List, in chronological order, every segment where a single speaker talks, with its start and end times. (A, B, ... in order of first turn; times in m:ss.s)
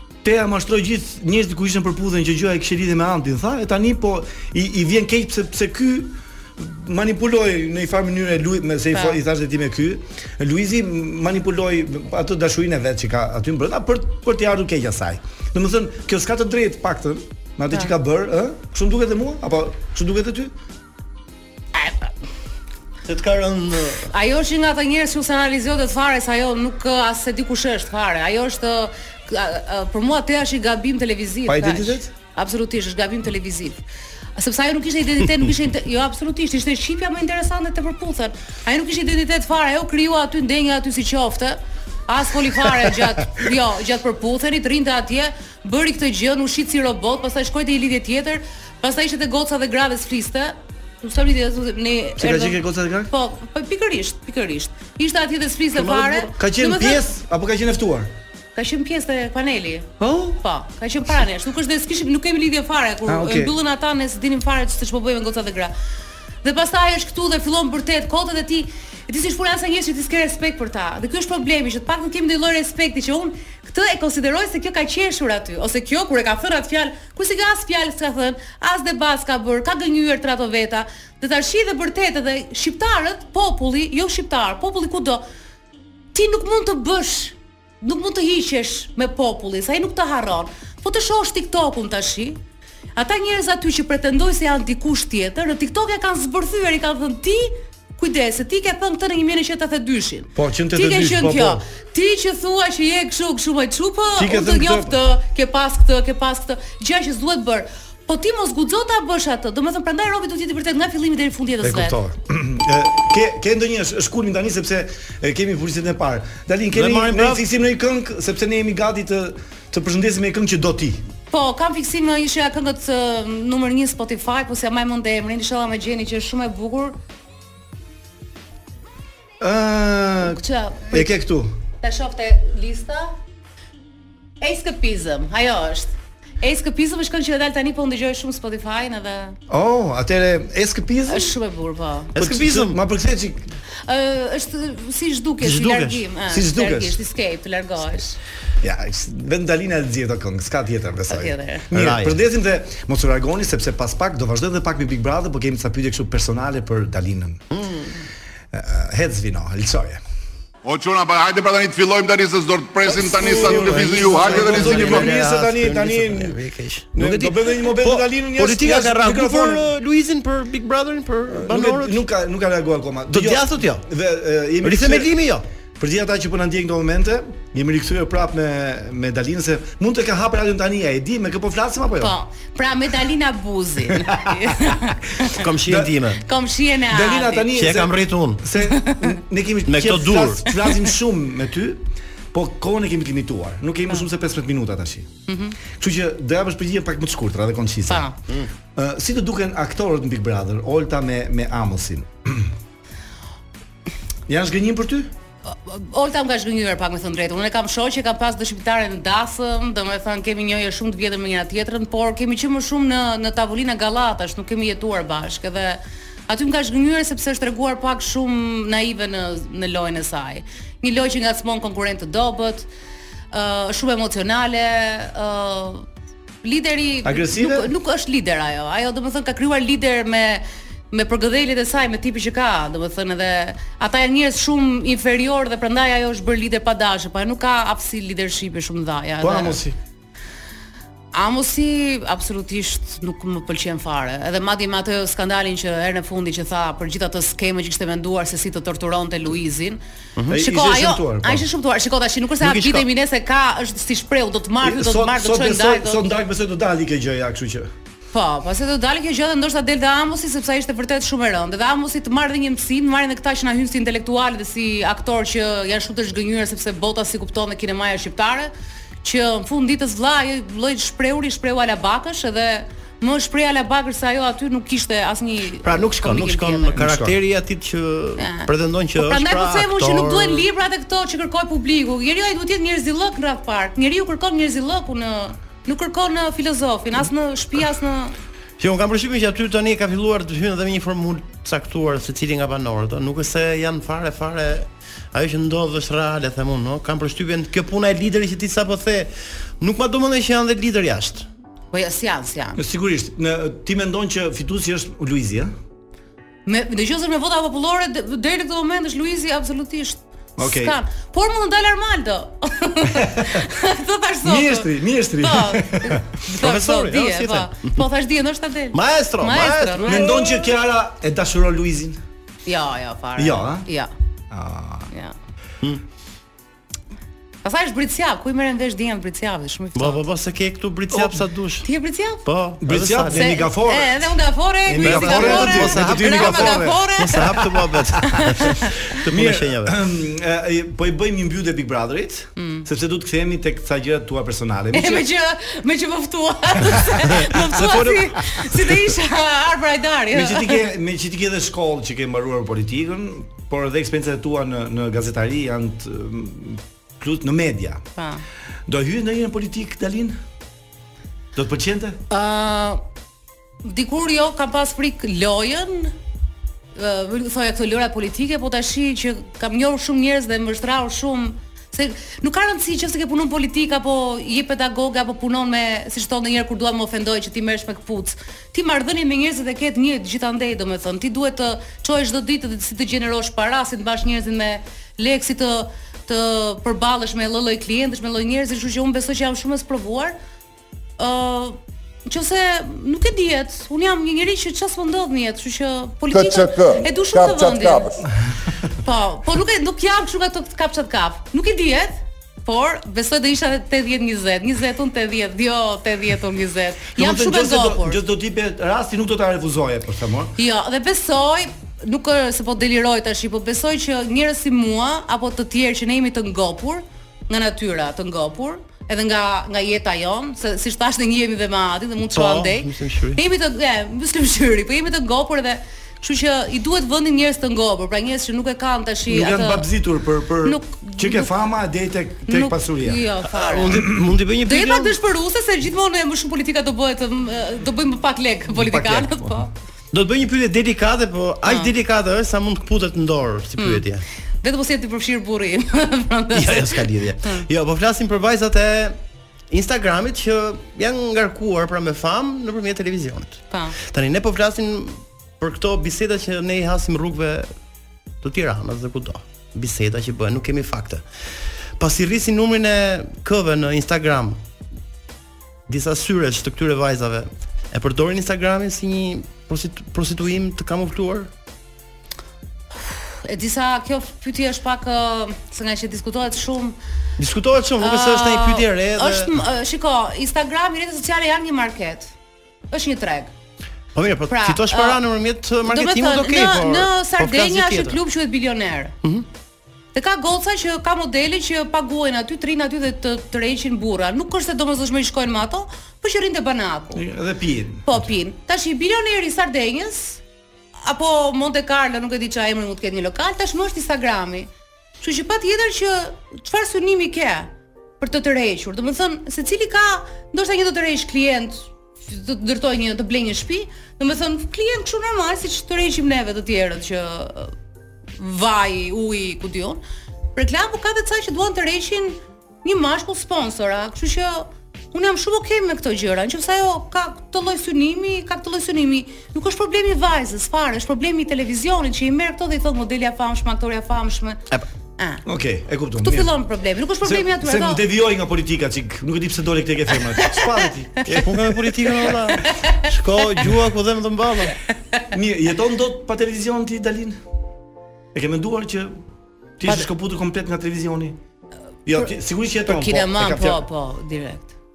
0:00.2-0:20.5 A
0:08.9-0:09.2 B
0:21.7-0:22.1 B
0:23.1-0:24.1 C
0:24.1-0:33.8 B
0:31.5-0:32.1 A
0:34.4-0:57.1 B
0:52.2-0:53.1 A
0:55.7-0:56.3 C
0:56.3-0:58.1 A
0:58.6-1:05.7 B
1:00.0-1:00.4 A
1:03.1-1:03.6 A
1:06.4-1:25.2 B
1:26.1-1:32.4 B
1:33.0-1:52.0 B
1:40.4-1:41.6 A
1:44.2-1:45.0 A
1:51.6-2:01.0 A
1:56.7-1:57.4 C
2:01.3-2:07.0 B
2:09.4-2:11.5 A
2:10.2-2:11.1 B
2:11.8-2:13.2 B
2:14.4-2:19.4 B
2:19.5-2:21.4 A
2:21.1-2:22.1 B
2:22.2-2:22.8 C
2:22.2-2:23.5 A
2:23.9-2:28.2 B
2:25.4-2:26.1 C
2:26.3-2:27.0 A
2:28.6-2:37.4 A
2:31.1-2:31.7 B
2:31.7-2:32.2 C
2:37.5-2:38.0 C
2:38.5-2:40.0 A
2:40.6-2:45.1 D
2:42.9-2:46.4 A
2:42.9-2:52.0 C
2:46.9-2:49.7 A
2:51.3-2:55.1 A
2:53.1-2:53.8 C
2:54.6-2:55.4 C
2:55.8-3:02.2 A
3:02.0-3:05.4 B
3:05.4-3:06.2 C
3:05.7-3:06.0 A
3:06.2-3:07.5 B
3:06.9-3:15.1 A
3:07.5-3:08.4 C
3:08.6-3:09.1 B
3:09.7-3:10.5 C
3:15.3-3:15.6 B
3:15.7-3:18.1 A
3:17.9-3:18.2 B
3:18.8-3:22.5 A
3:24.3-3:25.1 A
3:25.5-3:42.7 B
3:43.3-3:45.9 B
3:46.4-3:59.6 B
3:47.0-3:47.7 A
3:59.2-3:59.8 A
4:01.1-4:09.8 B
4:10.2-4:10.4 C
4:10.3-4:11.4 A
4:10.4-4:16.0 B
4:12.4-4:12.9 C
4:14.6-4:17.7 A
4:18.1-4:28.5 B
4:29.0-4:36.8 B
4:35.6-4:40.5 C
4:36.8-4:37.2 A
4:38.2-4:48.2 B
4:48.6-5:01.3 C
5:01.7-5:02.6 B
5:02.6-5:05.5 A
5:06.5-5:20.4 B
5:10.4-5:10.8 A
5:12.9-5:13.4 A
5:14.2-5:16.2 A
5:16.3-5:17.8 C
5:18.7-5:20.2 C
5:19.9-5:22.0 A
5:22.5-5:23.9 B
5:23.2-5:23.7 A
5:24.3-5:24.9 A
5:27.4-5:30.0 B
5:29.8-5:31.7 C
5:30.9-5:31.2 A
5:31.6-5:32.3 B
5:32.2-5:33.4 C
5:32.6-5:34.1 A
5:33.1-5:38.7 B
5:34.6-5:37.3 A
5:34.8-5:39.8 C
5:39.1-5:45.1 A
5:42.4-5:42.7 B
5:44.7-5:50.6 B
5:47.1-5:48.2 C
5:50.1-5:57.8 A
5:58.0-5:58.2 B
5:58.7-6:00.2 A
6:01.4-6:02.0 A
6:02.1-6:02.8 B
6:03.6-6:05.9 B
6:06.8-6:30.2 B
6:31.0-6:38.0 B
6:38.8-6:48.0 B
6:47.0-6:50.3 A
6:50.4-7:09.7 B
7:02.0-7:03.2 C
7:09.1-7:13.0 A
7:10.4-7:11.3 B
7:12.3-7:13.9 B
7:13.3-7:15.0 C
7:14.4-7:19.5 B
7:18.5-7:19.5 A
7:19.9-7:24.0 C
7:21.4-7:21.7 B
7:23.6-7:23.8 B
7:24.4-7:27.5 B
7:26.3-7:29.0 C
7:29.5-7:37.5 C
7:33.5-7:33.8 B
7:38.2-7:41.0 C
7:41.8-7:44.4 C
7:45.7-7:51.3 C
7:52.9-7:56.8 B
7:57.2-7:59.4 C
7:57.8-8:02.1 B
8:02.7-8:03.3 B
8:04.0-8:08.0 C
8:04.3-8:05.0 B
8:05.6-8:09.0 B
8:09.9-8:17.0 B
8:16.9-8:18.1 A
8:17.9-8:20.2 B
8:20.8-8:24.5 B
8:25.0-8:37.5 B
8:38.2-8:39.8 B
8:40.4-8:54.4 B
8:55.2-8:56.3 A
8:56.0-8:57.8 B
8:57.0-9:01.3 A
9:00.2-9:00.5 B
9:01.1-9:04.6 C
9:02.3-9:02.8 B
9:05.1-9:07.2 A
9:08.1-9:08.9 A
9:09.6-9:11.2 A
9:09.6-9:09.9 B
9:11.9-9:13.6 A
9:12.6-9:14.5 B